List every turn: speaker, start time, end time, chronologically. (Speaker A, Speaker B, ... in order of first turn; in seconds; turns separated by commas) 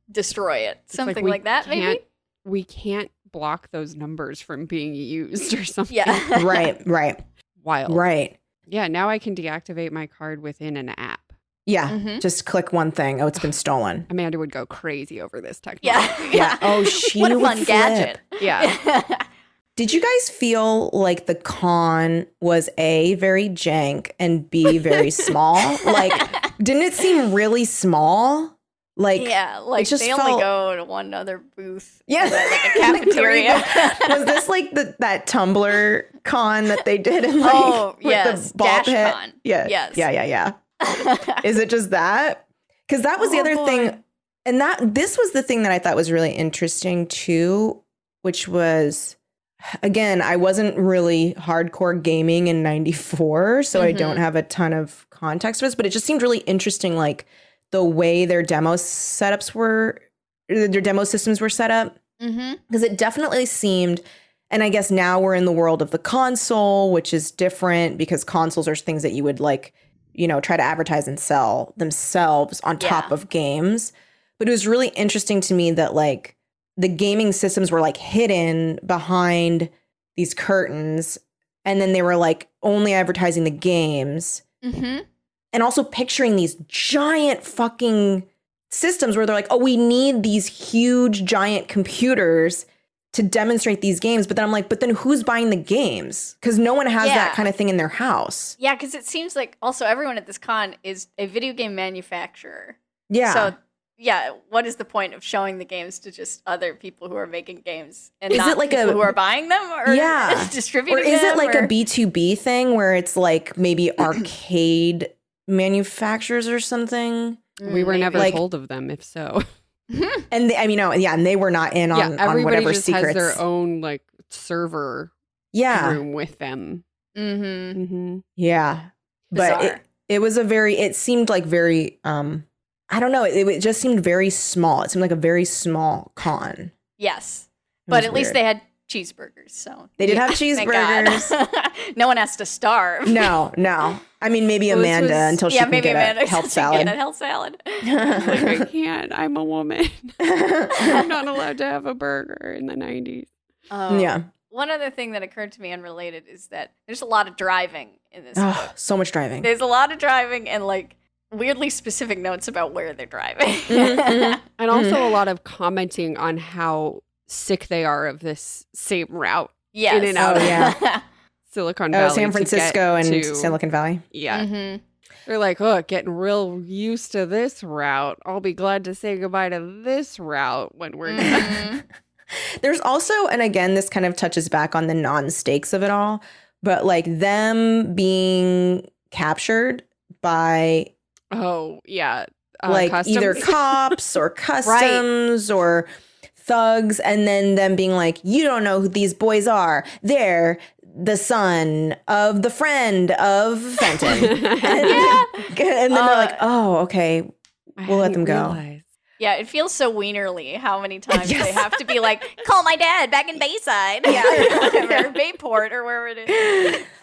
Speaker A: 0.1-2.0, Speaker B: 0.9-6.3, Speaker A: 5.9-6.7, Speaker C: 6.3-7.2, Speaker B: 7.6-8.1, Speaker C: 7.9-8.4, Speaker B: 8.7-11.3, Speaker C: 11.7-14.1, Speaker A: 11.9-12.2, Speaker B: 14.1-16.5, Speaker A: 15.8-19.3, Speaker C: 16.3-18.2, Speaker B: 18.4-18.8, Speaker C: 19.8-30.5, Speaker A: 25.9-26.5, Speaker A: 29.1-34.4, Speaker C: 32.1-40.6, Speaker A: 37.4-40.1, Speaker A: 40.8-41.4, Speaker C: 41.3-49.2, Speaker A: 43.4-43.7, Speaker B: 43.5-43.9, Speaker C: 49.7-62.0, Speaker A: 53.8-54.2, Speaker A: 62.2-62.6, Speaker C: 62.7-84.4, Speaker A: 72.8-73.1, Speaker A: 84.6-85.0, Speaker C: 85.5-98.5, Speaker A: 97.0-97.5, Speaker A: 98.6-111.7, Speaker C: 103.1-103.5, Speaker C: 108.3-109.2, Speaker C: 109.9-117.5, Speaker A: 117.6-118.4, Speaker B: 117.7-119.5, Speaker C: 118.1-118.4, Speaker A: 119.9-120.3, Speaker C: 120.3-123.4, Speaker B: 121.9-125.1, Speaker C: 125.5-126.0, Speaker B: 125.7-126.8, Speaker A: 127.2-127.8, Speaker B: 127.8-128.2, Speaker C: 128.4-136.7, Speaker A: 129.3-129.8, Speaker A: 137.0-143.4, Speaker C: 137.9-138.4, Speaker C: 140.0-141.3, Speaker C: 143.1-147.0, Speaker B: 144.7-145.4, Speaker A: 145.5-148.2, Speaker C: 147.8-148.7, Speaker B: 148.2-153.3, Speaker C: 150.2-151.0, Speaker A: 150.7-151.0, Speaker A: 153.7-158.7, Speaker C: 153.9-154.3, Speaker C: 158.4-159.5, Speaker A: 159.4-164.4, Speaker C: 163.7-165.1, Speaker B: 164.6-170.8, Speaker A: 169.7-171.0, Speaker C: 170.2-170.8, Speaker B: 171.5-173.6, Speaker C: 171.9-174.0, Speaker B: 174.1-174.5, Speaker A: 174.3-174.8, Speaker B: 175.3-181.7, Speaker A: 181.1-181.8, Speaker C: 181.2-181.7, Speaker C: 182.3-190.9, Speaker B: 191.3-194.0, Speaker C: 192.7-195.9, Speaker A: 194.6-195.1, Speaker C: 196.4-207.3, Speaker B: 204.1-205.1, Speaker A: 204.8-206.4, Speaker B: 207.8-208.8, Speaker C: 207.8-208.6, Speaker A: 209.2-216.8, Speaker C: 211.2-211.7, Speaker C: 214.1-215.2, Speaker C: 216.3-216.8